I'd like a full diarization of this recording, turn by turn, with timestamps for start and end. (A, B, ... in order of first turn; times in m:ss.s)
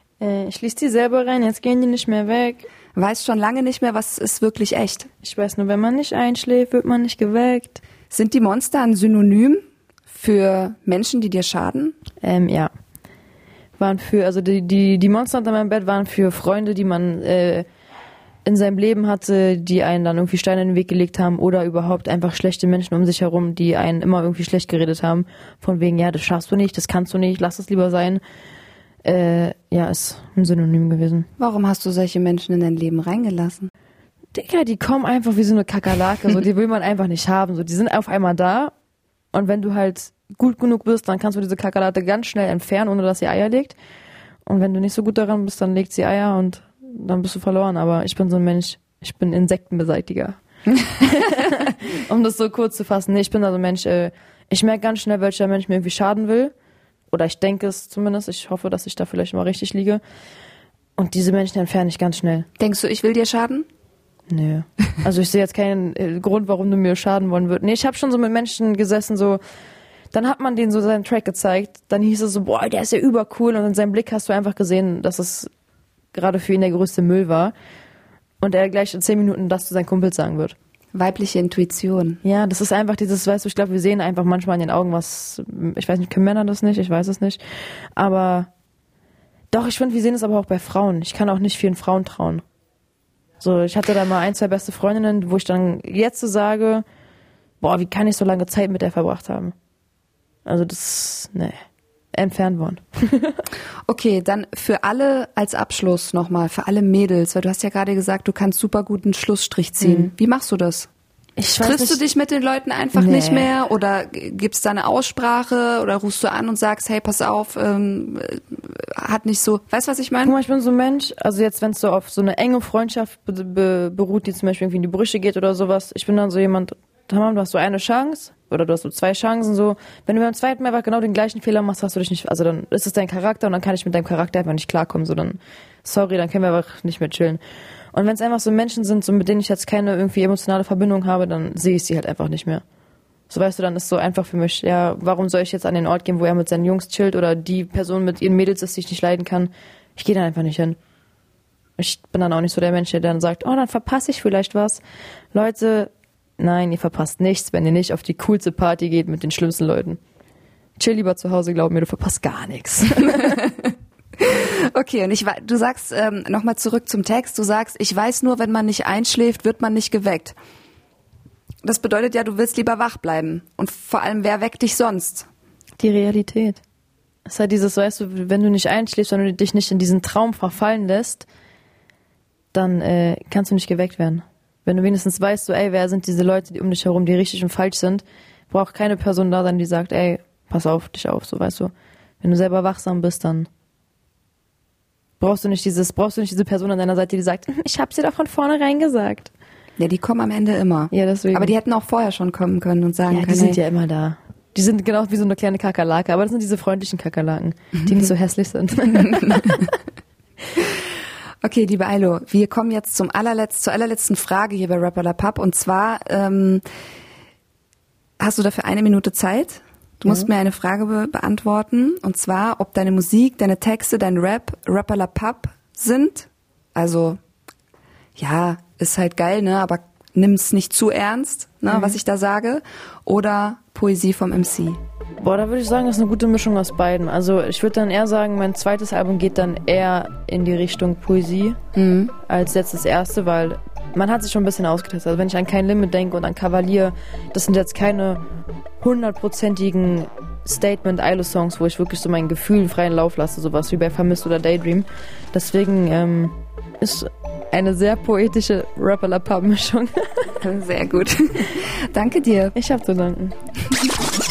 0:00.2-0:02.6 A
0:02.9-0:05.1 B
0:05.2-0:07.8 A
0:08.1-0:12.0 B
0:12.2-0:12.7 A
0:13.8-0:17.6 A
0:18.4-0:28.2 A
0:29.0-0:31.3 A
0:31.4-0:33.7 B
0:34.3-0:38.7 A
0:39.3-0:43.8 A
0:44.4-0:50.4 A
0:51.0-0:56.5 A
0:57.1-1:00.0 A
1:01.0-1:02.5 A
1:02.6-1:03.7 B
1:04.3-1:09.4 A
1:10.1-1:15.5 A
1:16.1-1:17.5 A
1:18.4-1:20.5 A
1:20.9-1:22.2 B
1:22.2-1:28.5 A
1:29.5-1:32.4 A
1:33.4-1:36.8 A
1:37.6-1:39.5 A
1:40.4-1:41.6 A
1:42.1-1:43.4 A
1:43.8-1:50.9 B
1:49.8-1:50.1 A
1:51.4-1:52.0 A
1:51.6-2:00.4 B
1:52.9-1:53.5 A
2:00.2-2:17.4 A
2:17.9-2:22.6 A
2:23.3-2:30.8 A
2:31.8-2:34.8 A
2:35.3-2:40.0 A
2:40.8-2:43.4 A
2:43.2-2:50.3 B
2:51.6-2:55.3 B
2:55.8-2:56.6 A
2:57.2-3:01.2 A
3:02.5-3:13.5 A
3:15.2-3:19.3 A
3:19.8-3:23.6 B
3:20.9-3:21.5 A
3:23.1-3:29.7 A
3:29.1-3:29.5 B
3:31.4-3:36.6 B
3:38.2-3:47.2 B
3:48.2-3:54.8 B
3:51.7-3:52.0 A
3:55.2-4:01.6 A
4:01.7-4:02.1 B
4:02.3-4:08.2 A
4:08.8-4:20.4 A
4:20.4-4:22.5 B
4:22.5-4:23.4 A
4:23.6-4:23.9 B